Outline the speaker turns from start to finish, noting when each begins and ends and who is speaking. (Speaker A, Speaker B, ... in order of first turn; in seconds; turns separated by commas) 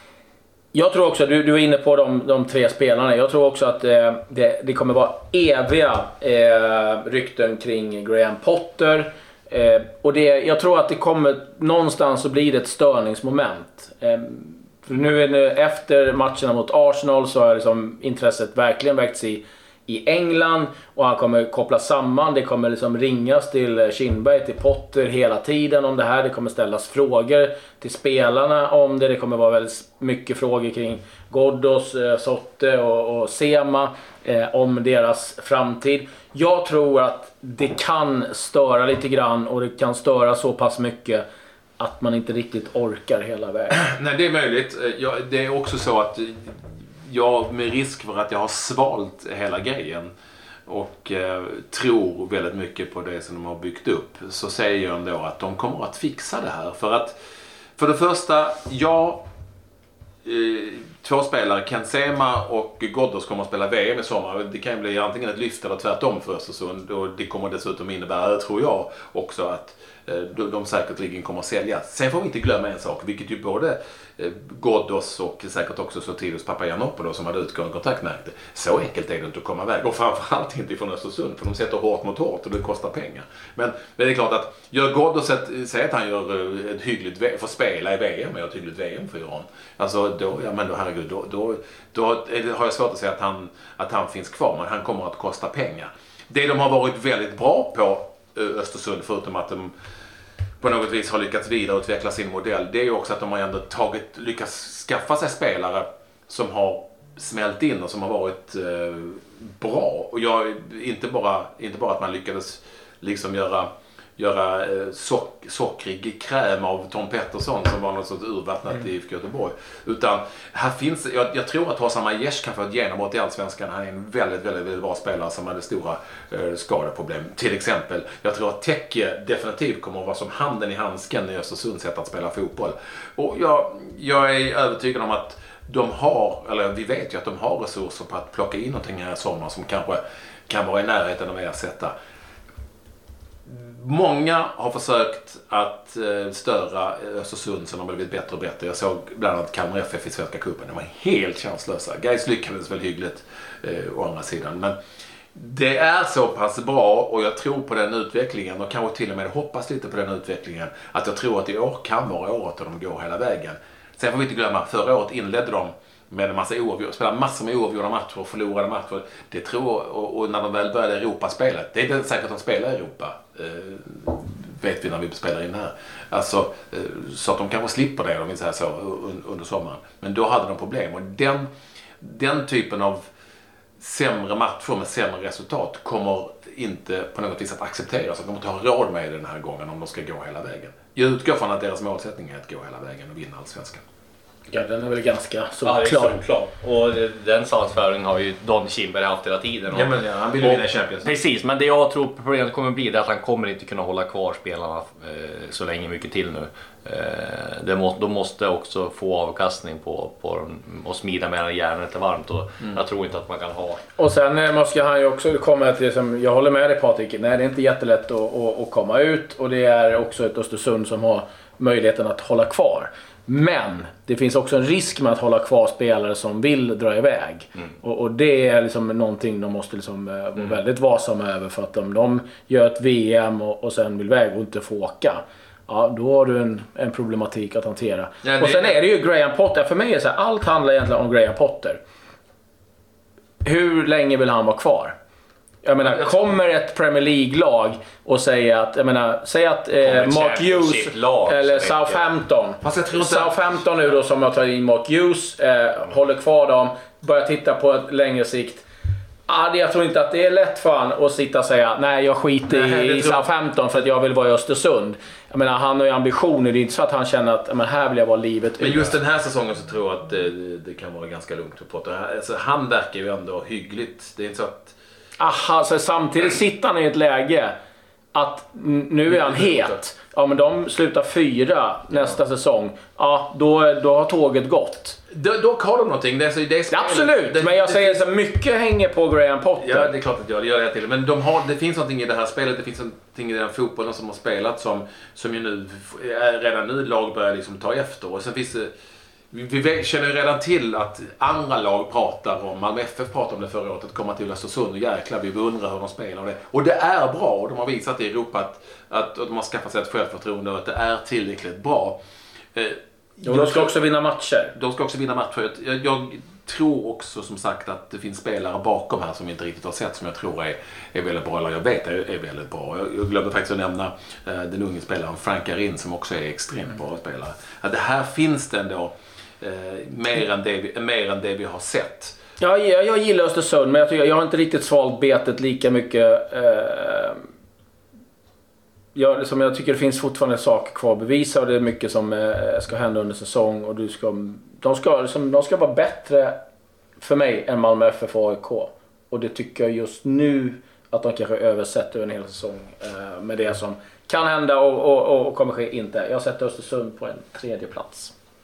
Speaker A: 0.7-41.2, Speaker A: 41.8-43.8, Speaker B: 43.7-50.1, Speaker B: 50.7-57.2, Speaker B: 57.8-59.2, Speaker B: 60.2-99.7, Speaker B: 100.6-141.9, Speaker B: 143.4-154.8, Speaker B: 155.3-183.1, Speaker B: 183.8-193.8, Speaker A: 194.5-196.2, Speaker C: 195.6-199.9, Speaker B: 199.7-201.1, Speaker C: 200.4-213.8, Speaker A: 214.0-241.8, Speaker B: 238.2-238.8, Speaker A: 243.4-244.9, Speaker A: 245.6-258.6, Speaker C: 249.8-252.0, Speaker B: 252.6-253.3, Speaker A: 259.3-268.9, Speaker B: 262.5-263.3, Speaker B: 268.6-274.7, Speaker A: 275.2-277.5, Speaker A: 278.1-285.0, Speaker B: 279.1-279.7, Speaker B: 285.1-288.0, Speaker A: 286.7-289.9, Speaker B: 289.6-298.7, Speaker B: 299.3-312.0, Speaker B: 312.5-313.8, Speaker A: 313.2-314.5, Speaker B: 314.5-332.1, Speaker A: 332.4-337.2, Speaker A: 338.9-346.4, Speaker A: 347.0-358.1